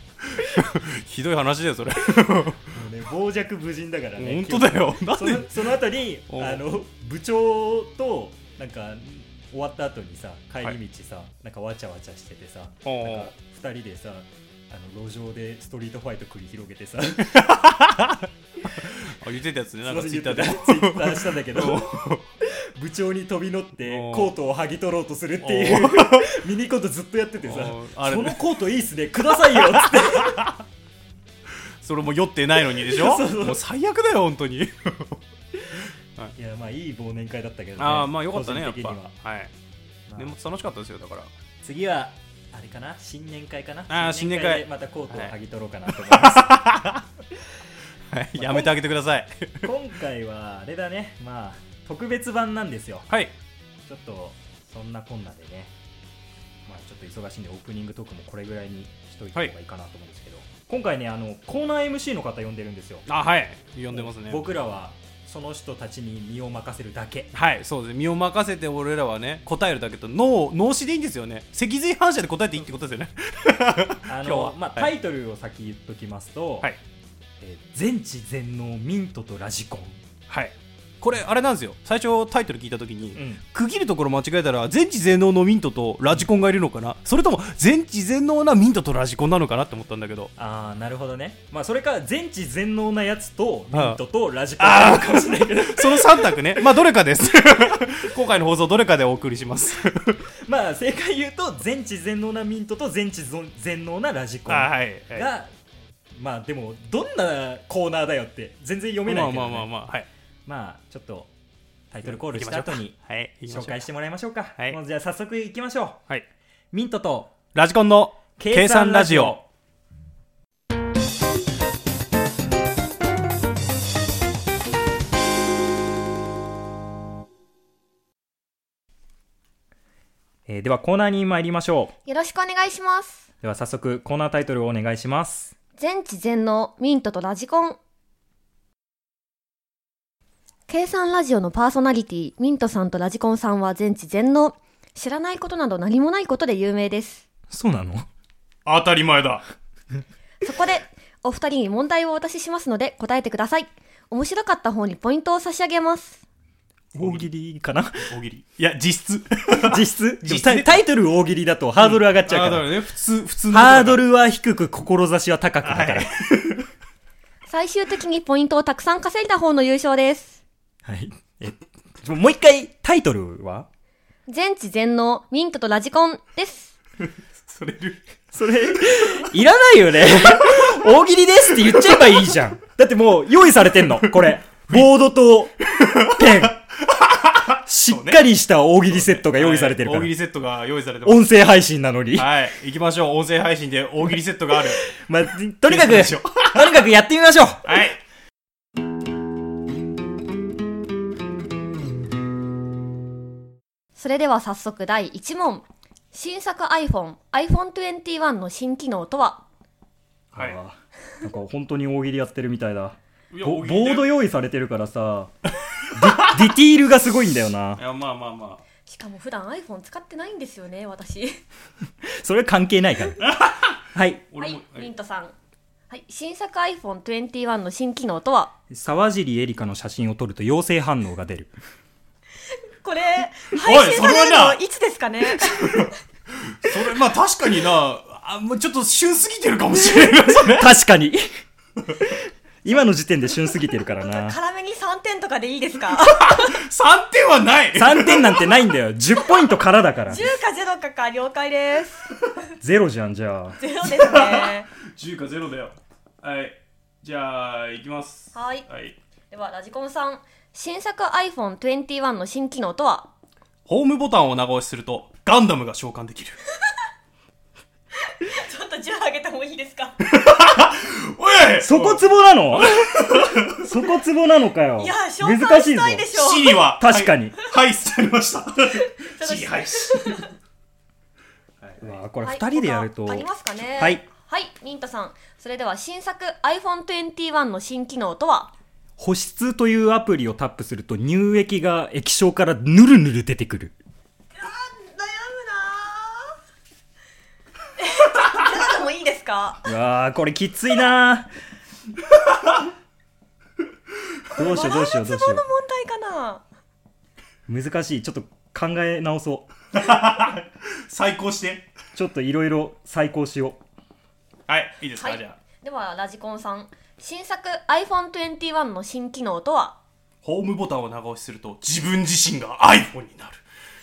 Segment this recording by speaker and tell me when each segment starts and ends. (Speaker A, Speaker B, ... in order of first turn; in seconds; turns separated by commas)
Speaker A: 0.3-2.7, Speaker B: 2.7-17.4, Speaker A: 4.2-5.8, Speaker A: 6.3-6.6, Speaker A: 12.8-13.3, Speaker A: 17.3-18.2, Speaker A: 18.8-22.2, Speaker B: 19.9-30.4, Speaker A: 23.9-24.3, Speaker A: 25.4-26.3, Speaker A: 27.4-28.4, Speaker A: 29.5-30.5, Speaker A: 31.8-35.2, Speaker B: 32.7-33.6, Speaker A: 35.8-36.3, Speaker B: 36.4-39.1, Speaker A: 37.8-39.5, Speaker B: 40.1-40.3, Speaker A: 40.2-41.3, Speaker B: 41.6-46.7, Speaker A: 43.9-45.3, Speaker A: 46.0-47.0, Speaker A: 48.1-49.7, Speaker B: 48.3-48.8, Speaker B: 49.6-53.1, Speaker B: 53.9-55.7, Speaker B: 56.6-63.0, Speaker A: 63.1-64.4, Speaker B: 63.9-67.3, Speaker A: 67.3-74.9, Speaker B: 74.1-76.7, Speaker B: 77.4-80.0, Speaker A: 80.3-90.3, Speaker B: 83.1-83.4, Speaker B: 90.4-96.5, Speaker A: 93.7-94.0, Speaker A: 94.6-100.2, Speaker B: 100.3-105.5, Speaker A: 104.5-105.3, Speaker B: 106.1-109.7, Speaker A: 109.0-110.1, Speaker B: 110.5-111.3, Speaker B: 111.9-113.0, Speaker A: 112.2-113.8, Speaker B: 113.5-116.0, Speaker B: 116.7-117.4, Speaker A: 117.5-119.4, Speaker B: 118.4-119.4, Speaker B: 130.5-131.9, Speaker C: 132.1-133.2, Speaker B: 133.4-135.5, Speaker C: 135.8-137.8, Speaker C: 140.7-147.2, Speaker B: 147.5-148.1, Speaker A: 148.7-149.4, Speaker C: 150.4-156.2, Speaker A: 156.9-157.2, Speaker B: 156.9-158.1, Speaker A: 158.0-160.8, Speaker B: 159.6-162.7, Speaker A: 161.8-164.0, Speaker B: 163.5-166.1, Speaker A: 165.6-166.7, Speaker C: 167.5-170.4, Speaker B: 170.8-173.7, Speaker C: 174.3-176.8, Speaker A: 177.4-178.0, Speaker B: 178.3-186.6, Speaker A: 181.6-182.1, Speaker A: 184.0-184.8, Speaker A: 185.7-188.3, Speaker B: 187.6-190.1, Speaker A: 188.9-191.2, Speaker B: 191.0-192.3, Speaker A: 192.1-194.9, Speaker B: 194.9-197.8, Speaker A: 195.7-196.8, Speaker A: 197.6-198.0, Speaker C: 203.9-209.4, Speaker B: 210.3-215.3, Speaker A: 213.3-214.1, Speaker B: 215.9-217.8, Speaker A: 216.0-216.3, Speaker A: 217.8-218.6, Speaker C: 218.8-221.4, Speaker B: 222.0-223.2, Speaker A: 223.2-223.8, Speaker B: 223.9-224.2, Speaker A: 224.3-224.9, Speaker C: 224.4-225.3, Speaker C: 225.9-228.5, Speaker B: 228.7-231.5, Speaker C: 232.8-235.9, Speaker A: 233.6-234.6, Speaker A: 235.5-235.9, Speaker A: 236.5-240.7, Speaker B: 240.5-241.2, Speaker B: 242.6-244.4, Speaker C: 244.0-246.6, Speaker A: 246.0-248.4, Speaker B: 247.7-250.3, Speaker C: 250.1-252.1, Speaker B: 252.6-253.6, Speaker C: 253.6-254.7, Speaker A: 253.8-258.9, Speaker C: 258.3-258.6, Speaker C: 259.3-263.1, Speaker A: 263.6-266.4, Speaker C: 268.0-270.0, Speaker A: 270.1-273.6, Speaker B: 271.6-276.1, Speaker C: 274.8-276.6, Speaker A: 276.1-280.2, Speaker B: 276.8-277.3, Speaker C: 278.8-280.3, Speaker A: 281.6-282.0, Speaker B: 281.8-283.2, Speaker C: 282.2-288.5, Speaker B: 283.8-284.0, Speaker B: 289.0-293.7, Speaker C: 294.3-296.4, Speaker C: 297.8-299.6, Speaker B: 299.6-301.3, Speaker B: 304.3-305.4, Speaker C: 304.3-306.4, Speaker B: 307.5-309.5, Speaker A: 309.7-311.7, Speaker B: 311.9-313.6, Speaker A: 314.5-315.4, Speaker C: 314.9-319.8, Speaker A: 320.2-323.4